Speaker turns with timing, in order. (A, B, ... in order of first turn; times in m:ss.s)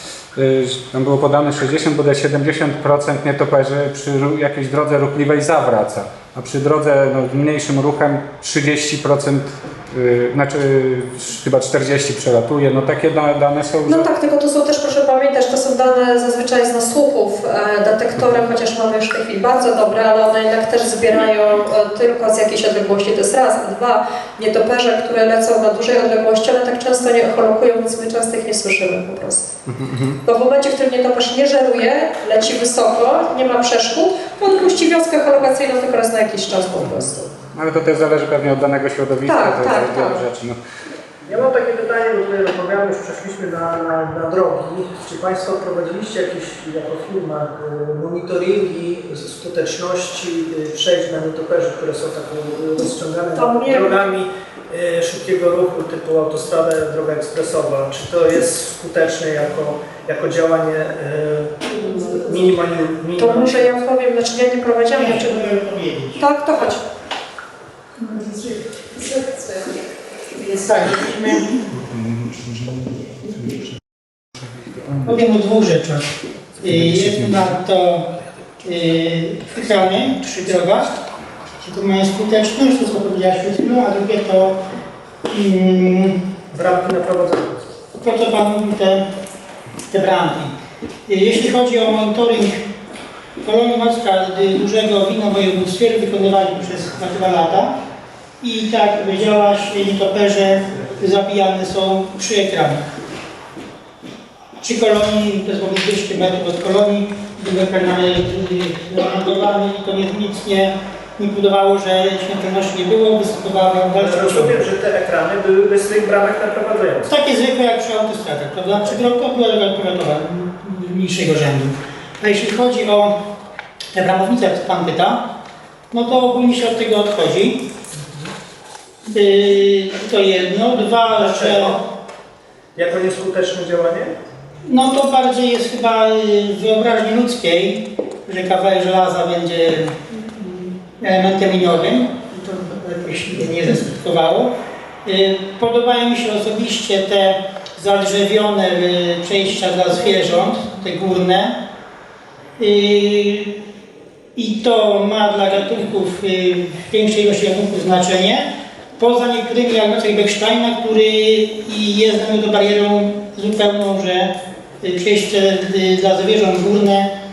0:00.3-0:14.1 A
0:13.9-0:29.5 B
0:29.7-0:30.2 A
0:30.2-0:37.3 B
0:37.5-0:40.6 A
0:39.2-0:40.2 B
0:41.3-1:03.8 C
0:53.3-0:54.1 B
1:01.8-1:02.2 B
1:03.2-1:05.5 B
1:04.9-1:06.2 D
1:06.2-1:06.8 B
1:08.0-1:08.6 D
1:10.4-1:11.5 D
1:11.9-1:12.8 A
1:15.0-1:18.1 D
1:16.6-1:17.5 A
1:18.6-1:21.0 D
1:21.6-1:24.6 D
1:25.3-1:26.2 D
1:26.5-1:27.7 C
1:28.0-1:29.0 D
1:29.9-1:30.5 D
1:31.1-1:32.6 D
1:33.4-1:37.7 D
1:38.4-1:42.8 D
1:44.6-1:54.6 D
1:53.9-1:57.1 C
1:57.1-2:03.2 D
2:03.9-2:05.3 D
2:05.9-2:07.6 D
2:09.1-2:11.8 D
2:11.1-2:11.8 C
2:12.8-2:14.1 C
2:14.6-2:31.6 D
2:32.6-2:33.6 D
2:34.4-2:47.1 D